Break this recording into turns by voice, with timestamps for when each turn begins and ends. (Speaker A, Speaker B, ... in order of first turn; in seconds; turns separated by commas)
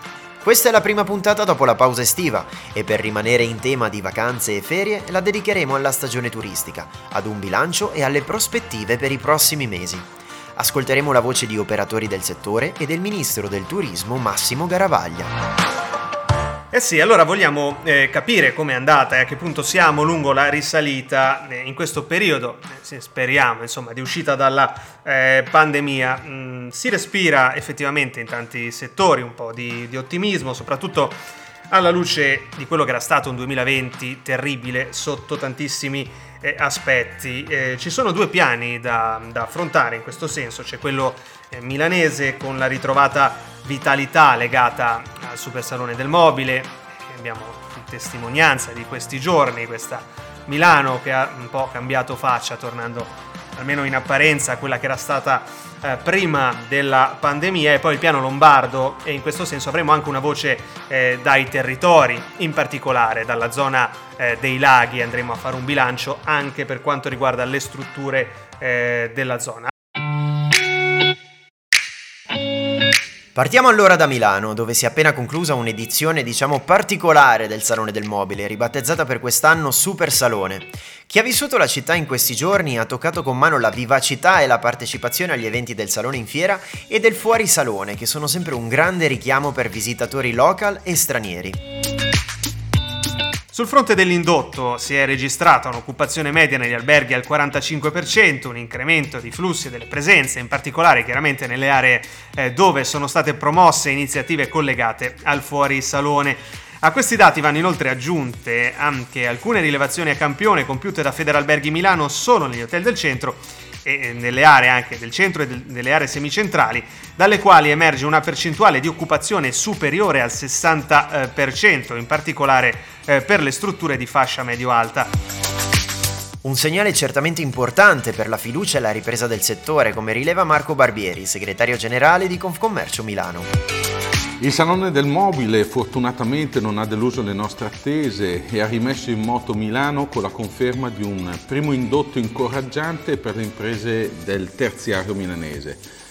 Speaker A: 0.4-15.3, Speaker B: 16.7-69.7, Speaker A: 73.3-91.6, Speaker B: 93.5-125.1, Speaker A: 126.4-133.5, Speaker C: 134.4-145.8